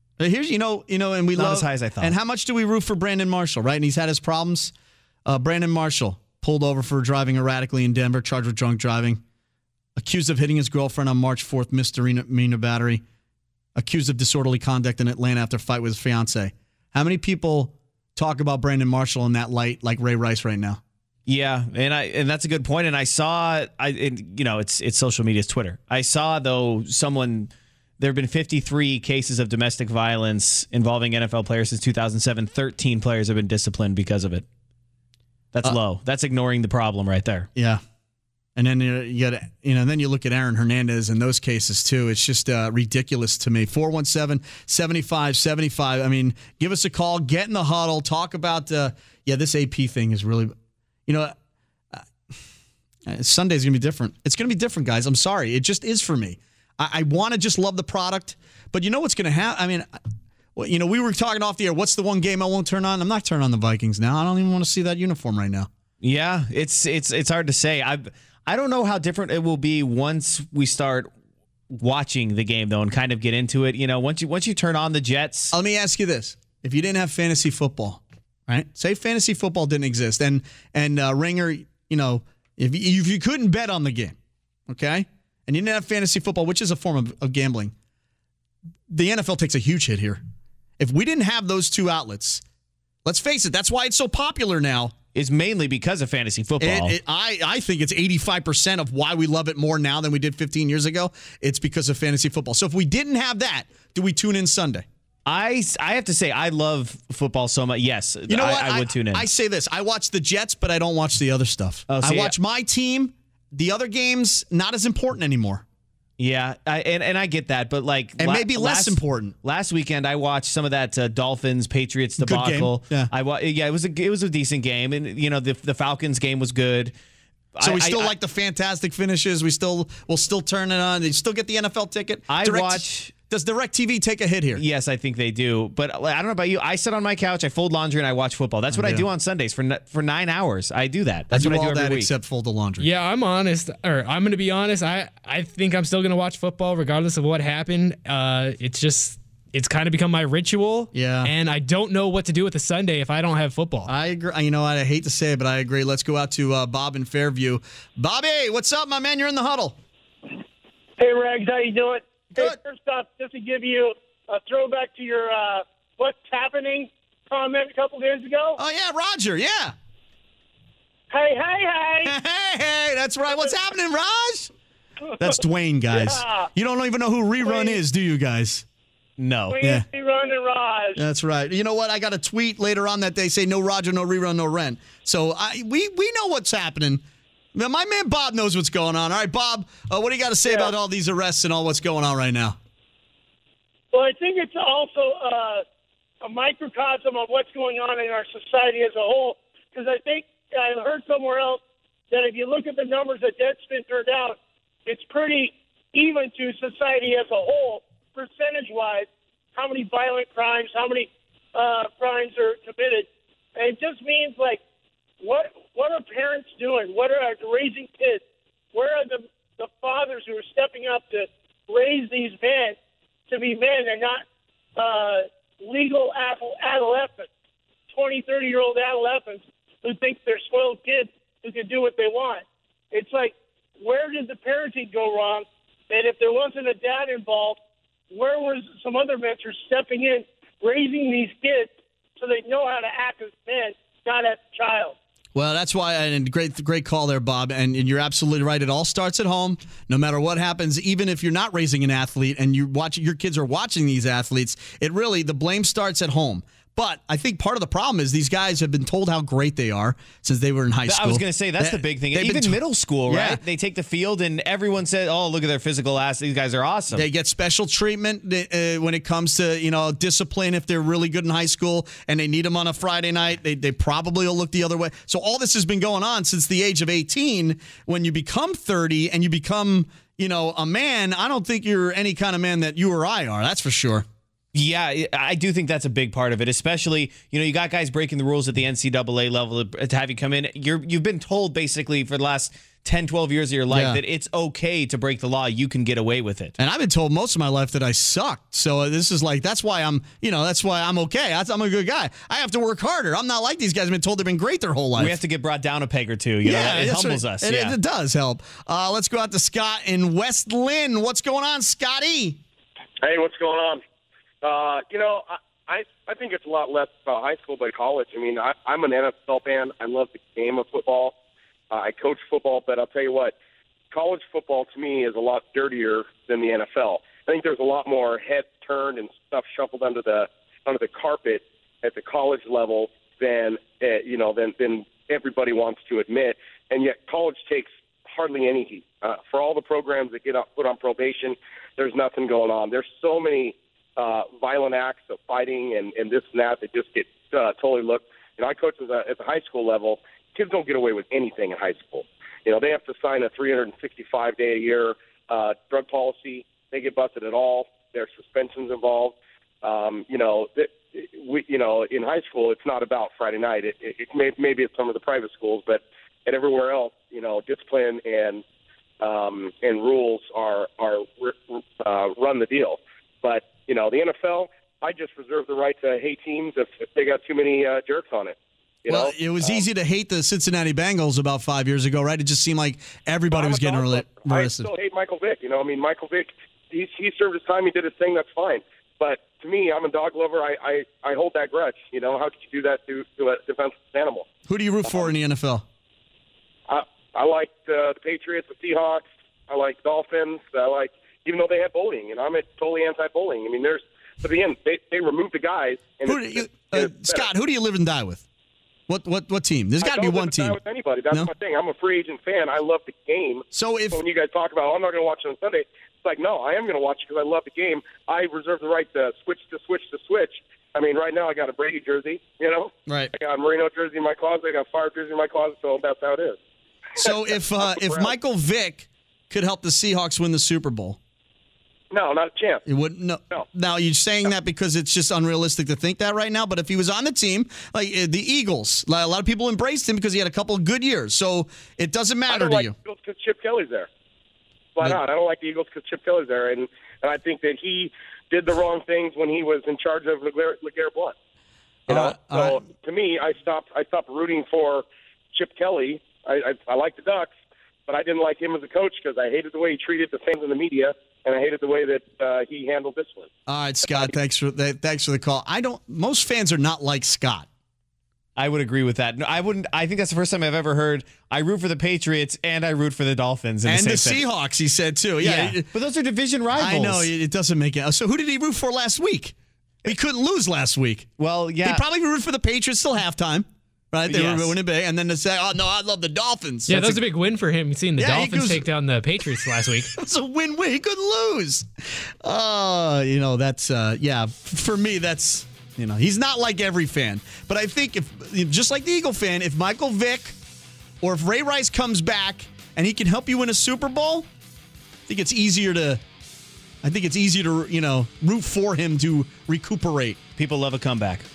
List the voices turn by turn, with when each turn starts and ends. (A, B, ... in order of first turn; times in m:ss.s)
0:00.2-0:04.7 A
0:01.4-0:02.1 B
0:05.3-0:09.2 A
0:10.0-0:13.0 A
0:13.8-0:20.8 A
0:21.3-0:34.4 B
0:35.5-0:37.5 B
0:37.6-0:37.8 A
0:38.6-0:50.5 A
0:51.1-0:51.4 A
0:51.9-0:52.4 A
0:53.1-0:59.9 A
1:00.6-1:05.7 A
1:06.0-1:11.1 B
1:11.7-1:15.5 B
1:15.5-1:24.2 A
1:24.7-1:27.7 A
1:28.9-1:30.2 A
1:30.8-1:32.4 A
1:33.0-1:35.0 A
1:35.2-1:37.0 B
1:36.6-1:44.9 A
1:45.3-1:49.2 B
1:48.3-1:55.6 A
1:51.9-1:52.3 B
1:56.2-2:06.9 B
1:58.2-1:59.3 A
2:02.2-2:03.1 A
2:07.6-2:08.1 B
2:07.6-2:14.6 A
2:12.3-2:13.1 B
2:14.6-2:22.1 B
2:18.7-2:19.1 A
2:21.3-2:22.9 A
2:22.8-2:33.9 C
2:30.9-2:31.3 A
2:33.9-2:39.8 A
2:41.0-2:48.6 D
2:48.6-2:49.8 A
2:51.1-2:52.2 D
2:52.0-2:54.5 A
2:55.2-2:58.6 A
2:56.0-2:56.5 D
2:57.4-2:57.8 D
2:59.2-2:59.6 B
2:59.5-3:01.0 D
2:59.6-2:59.9 A
3:01.0-3:07.0 A
3:07.6-3:12.6 A
3:13.9-3:15.6 D
3:16.2-3:34.6 D
3:35.2-3:42.8 D
3:43.3-3:44.2 D
3:44.8-3:47.3 D
3:47.9-3:57.6 D
3:58.1-4:05.0 D
4:05.4-4:23.4 A
4:20.9-4:27.1 B
4:26.9-4:44.1 A
4:44.5-4:56.5 B
4:53.7-4:54.0 A
4:56.6-5:05.2 A
5:05.0-5:07.8 B
5:06.4-5:12.4 A
5:13.0-5:13.8 E
5:14.4-5:21.2 E
5:21.7-5:23.4 E
5:23.9-6:08.4 E
6:09.0-6:19.6 E
6:18.9-6:24.7 A
6:23.3-6:34.3 E
6:34.5-6:35.6 A
6:36.7-6:47.3 E
6:46.1-6:48.2 A
6:48.9-6:50.6 A
6:49.8-7:06.4 E
6:53.5-6:54.0 A
7:02.9-7:03.1 A
7:07.0-7:11.0 A
7:07.0-7:08.1 E
7:11.9-7:12.6 E
7:12.7-7:22.8 A
7:22.3-7:23.9 E
7:24.8-7:31.2 E
7:31.9-7:32.6 A
7:31.9-7:37.3 E
7:37.9-7:43.3 E
7:43.5-7:47.5 A
7:48.4-7:54.2 B
7:53.6-7:55.7 A
7:55.2-7:57.1 B
7:56.6-8:01.1 A
8:01.2-8:01.8 B
8:01.6-8:07.0 A
8:04.1-8:04.5 B
8:06.7-8:09.9 C
8:08.0-8:08.7 A
8:09.9-8:11.7 A
8:12.2-8:20.4 A
8:21.0-8:24.3 A
8:25.1-8:26.0 A
8:26.8-8:30.2 A
8:30.4-8:31.3 B